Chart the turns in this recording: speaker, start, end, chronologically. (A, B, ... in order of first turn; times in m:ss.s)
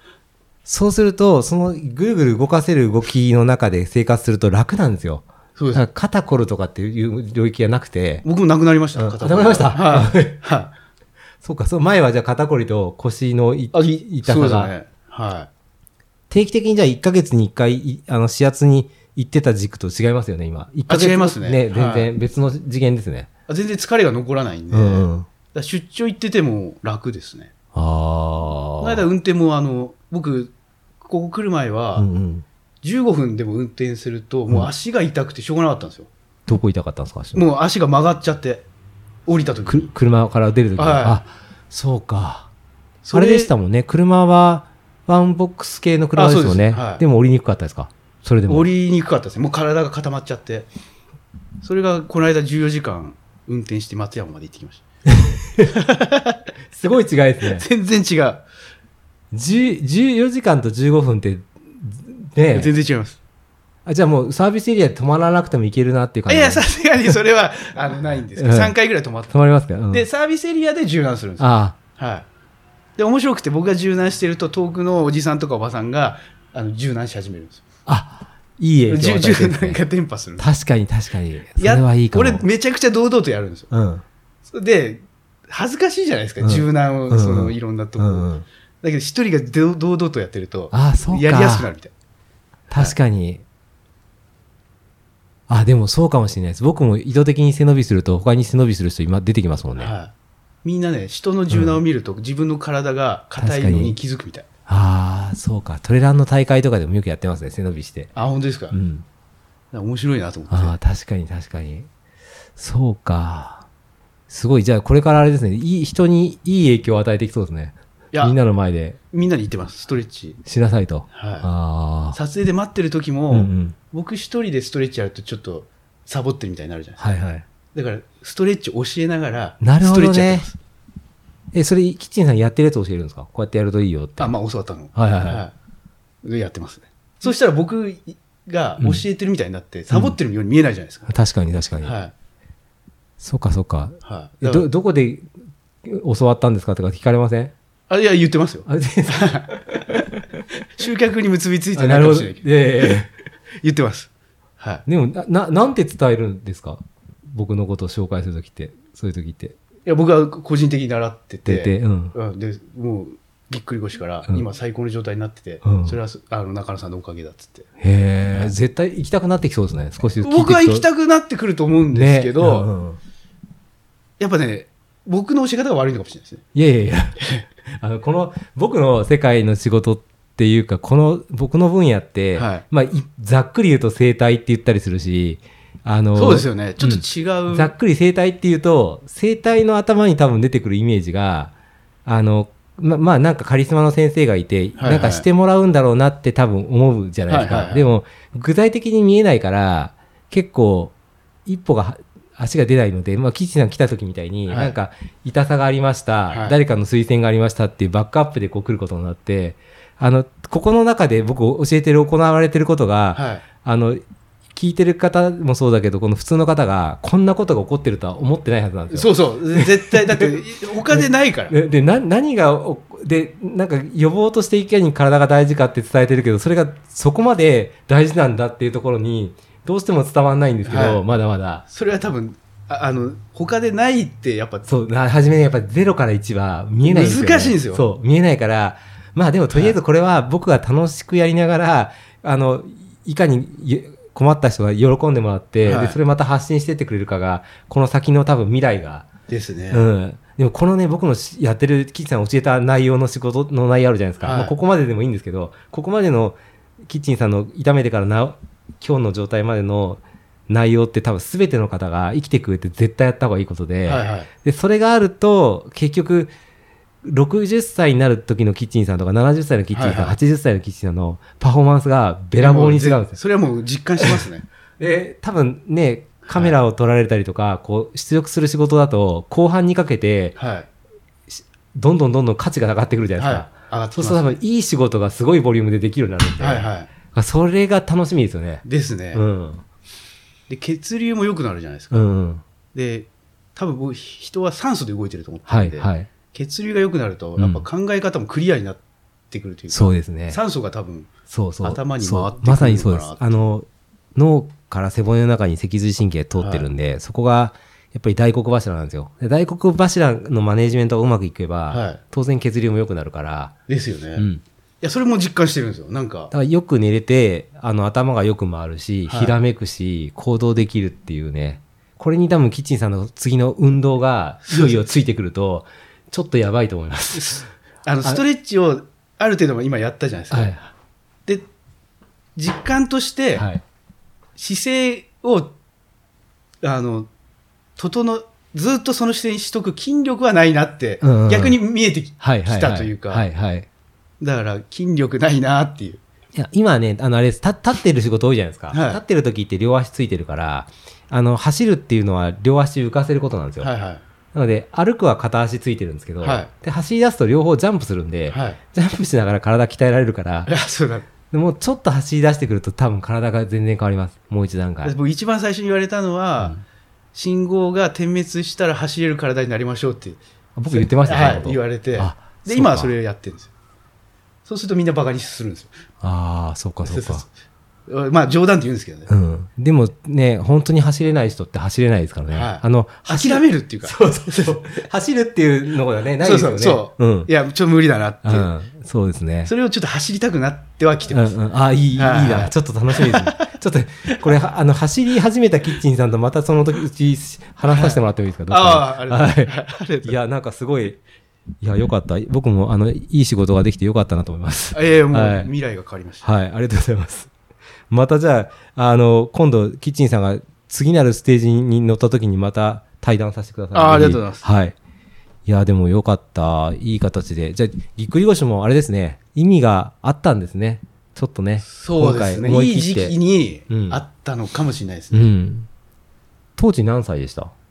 0:00.6-0:08.2 A
0:05.6-0:05.8 B
0:08.2-0:10.7 B
0:09.0-0:10.4 A
0:11.4-0:14.7 A
0:13.7-0:15.5 B
0:16.3-0:23.3 A
0:20.9-0:22.1 B
0:23.5-0:27.5 B
0:24.7-0:25.3 A
0:27.7-0:29.0 A
0:28.8-0:32.1 B
0:32.0-0:32.4 A
0:32.8-0:36.1 B
0:36.5-0:37.4 A
0:37.3-0:38.6 B
0:39.3-0:39.9 B
0:39.7-0:42.5 A
0:40.8-0:41.2 B
0:43.0-0:43.5 B
0:43.1-0:48.7 A
0:46.1-0:47.0 B
0:48.5-0:50.7 B
0:51.6-0:54.8 B
0:55.1-0:55.7 A
0:55.6-0:56.4 B
0:56.7-0:57.6 A
0:57.5-0:58.4 B
0:59.3-1:02.7 A
1:02.5-1:03.2 B
1:03.8-1:07.1 A
1:06.3-1:09.3 B
1:08.4-1:08.7 A
1:09.3-1:10.0 A
1:09.9-1:12.2 B
1:11.4-1:11.8 A
1:13.0-1:17.6 B
1:17.8-1:19.8 A
1:18.9-1:20.4 B
1:20.4-1:22.4 A
1:21.6-1:23.7 B
1:23.7-1:24.0 A
1:24.5-1:28.3 B
1:26.4-1:28.4 A
1:28.8-1:31.9 B
1:30.7-1:31.7 A
1:32.7-1:33.4 A
1:35.5-1:39.9 A
1:39.8-1:40.1 B
1:40.6-1:44.5 B
1:41.5-1:41.8 A
1:43.4-1:44.0 A
1:44.7-1:48.1 A
1:48.1-1:48.8 B
1:48.7-1:49.0 A
1:49.7-1:50.8 B
1:50.5-1:51.9 A
1:52.6-1:53.6 A
1:54.3-1:59.0 A
1:59.1-2:00.4 B
2:00.4-2:02.2 A
2:01.1-2:01.5 B
2:02.1-2:07.2 B
2:03.3-2:03.8 A
2:07.0-2:07.4 A
2:07.7-2:10.6 B
2:09.6-2:10.5 A
2:11.5-2:14.3 A
2:14.2-2:15.5 B
2:14.9-2:15.4 A
2:16.2-2:21.1 B
2:19.9-2:20.2 A
2:21.1-2:22.0 A
2:21.8-2:22.1 B
2:23.2-2:25.3 A
2:24.0-2:24.7 B
2:25.8-2:27.5 A
2:27.9-2:29.5 B
2:28.7-2:30.2 A
2:30.8-2:32.9 B
2:31.8-2:33.1 A
2:33.6-2:34.8 B
2:34.8-2:39.6 A
2:39.8-2:47.7 B
2:41.4-2:42.1 A
2:45.6-2:46.0 A
2:47.8-2:50.8 A
2:48.3-2:48.5 B
2:50.2-2:52.7 B
2:51.9-2:53.0 A
2:54.2-2:56.4 B
2:56.5-3:11.5 A
3:02.3-3:02.6 B
3:06.1-3:07.7 B
3:12.0-3:20.9 A
3:14.8-3:15.2 B
3:17.3-3:17.8 B
3:21.4-3:34.0 A
3:24.5-3:24.8 B
3:26.3-3:26.5 B
3:33.1-3:33.4 B
3:34.5-3:40.3 A
3:38.9-3:41.5 B
3:40.9-3:51.6 A
3:50.6-3:51.0 B
3:51.6-3:54.7 B
3:54.6-4:09.1 A
3:56.8-3:57.8 B
3:59.5-3:59.8 B
4:05.6-4:06.0 B
4:09.3-4:09.8 B
4:09.7-4:26.3 A
4:14.2-4:14.5 B
4:23.8-4:24.3 B
4:27.0-4:33.2 A
4:29.7-4:30.2 B
4:32.4-4:34.4 B
4:34.8-4:40.4 A
4:36.3-4:36.5 B
4:40.4-4:40.7 B
4:41.3-4:49.6 A
4:43.2-4:44.4 B
4:46.4-4:46.9 B
4:48.6-4:49.2 B
4:50.5-4:52.0 B
4:51.9-4:52.4 A
4:52.7-5:01.1 B
4:55.5-4:56.1 A
4:57.4-4:57.6 A
4:59.7-5:00.4 A
5:01.3-5:13.5 A
5:01.6-5:03.4 B
5:06.4-5:06.7 B
5:11.7-5:12.0 B
5:13.7-5:14.2 B
5:14.2-5:14.4 A
5:14.8-5:16.3 B
5:16.3-5:27.5 A
5:19.1-5:19.4 B
5:24.5-5:24.8 B
5:27.1-5:30.5 B
5:30.3-5:30.7 A
5:32.4-5:33.4 B
5:33.4-5:33.6 A
5:34.4-5:35.5 B
5:36.6-5:37.1 B
5:37.8-5:43.2 B
5:41.0-5:41.6 A
5:42.2-5:43.7 A
5:44.2-5:46.0 B
5:46.3-5:53.7 A
5:48.7-5:49.0 B
5:53.6-5:54.0 B
5:54.3-6:00.5 A
5:56.2-5:56.5 B
5:58.3-5:58.6 B
6:00.4-6:01.1 B
6:01.3-6:04.9 A
6:04.8-6:06.6 B
6:07.1-6:10.2 B
6:10.6-6:12.9 A
6:10.7-6:13.5 B
6:14.4-6:15.7 B
6:16.0-6:17.2 A
6:16.8-6:17.3 B
6:17.9-6:19.1 B
6:19.1-6:27.3 A
6:22.3-6:24.6 B
6:26.2-6:28.5 B
6:28.2-6:29.5 A
6:29.4-6:31.4 B
6:31.1-6:41.0 A
6:32.0-6:33.5 B
6:37.7-6:40.1 B
6:41.6-6:45.5 A
6:44.7-6:46.2 B
6:46.2-6:47.3 A
6:47.9-6:54.8 A
6:53.7-6:54.4 B
6:55.4-7:03.2 A
7:01.6-7:05.3 B
7:03.7-7:04.0 A
7:05.1-7:05.7 A
7:06.6-7:07.5 A